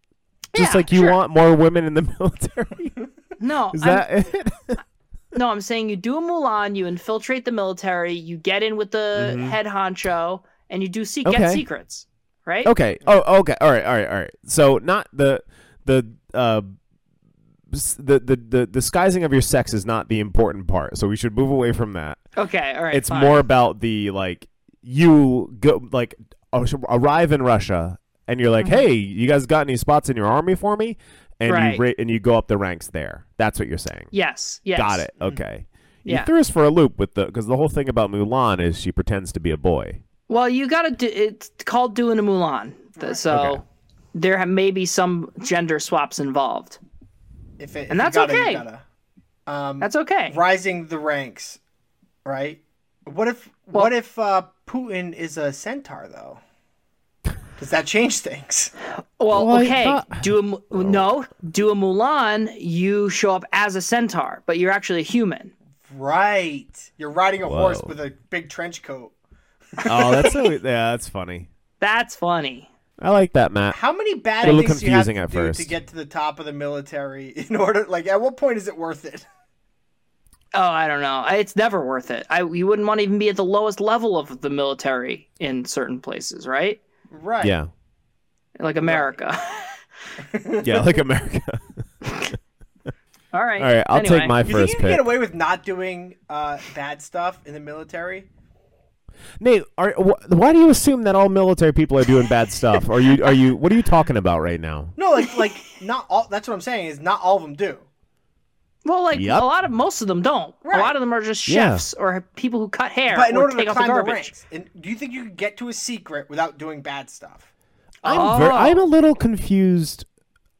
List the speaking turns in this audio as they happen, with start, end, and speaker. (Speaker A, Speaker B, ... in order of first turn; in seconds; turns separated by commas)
Speaker A: 0.5-1.2, Speaker B: 0.5-3.0, Speaker A: 3.4-4.1, Speaker B: 3.7-4.8, Speaker A: 5.3-12.7, Speaker B: 9.1-9.6, Speaker B: 11.2-11.6, Speaker B: 12.6-16.7, Speaker B: 17.7-22.2, Speaker A: 22.4-23.4, Speaker B: 22.9-34.1, Speaker A: 31.4-31.8, Speaker A: 34.1-35.1, Speaker B: 34.7-40.0, Speaker A: 36.0-36.3, Speaker A: 40.3-43.6, Speaker B: 43.3-43.6, Speaker A: 44.1-46.8, Speaker C: 47.6-48.8, Speaker A: 47.9-48.6, Speaker C: 49.5-51.6, Speaker A: 49.8-50.4, Speaker C: 52.2-56.4, Speaker C: 57.6-58.7, Speaker A: 59.2-65.5, Speaker B: 59.3-61.0, Speaker C: 65.8-69.1, Speaker B: 67.5-67.9, Speaker C: 69.8-70.3, Speaker B: 69.8-71.5, Speaker A: 69.9-70.3, Speaker A: 71.8-72.7, Speaker B: 73.0-73.8, Speaker C: 73.7-79.2, Speaker B: 74.4-75.7, Speaker A: 80.5-86.8, Speaker C: 87.1-87.5, Speaker B: 87.4-87.7, Speaker A: 88.6-89.8, Speaker C: 88.8-89.2, Speaker C: 90.2-90.8, Speaker B: 90.6-91.8, Speaker A: 92.1-92.3, Speaker A: 93.3-94.3, Speaker B: 93.6-95.0, Speaker C: 94.4-98.3, Speaker B: 99.4-104.9, Speaker C: 105.0-107.9, Speaker A: 108.8-114.3, Speaker B: 109.1-109.5, Speaker C: 110.6-110.9, Speaker B: 111.5-111.8, Speaker C: 113.1-117.5, Speaker A: 118.0-118.8, Speaker B: 118.0-120.0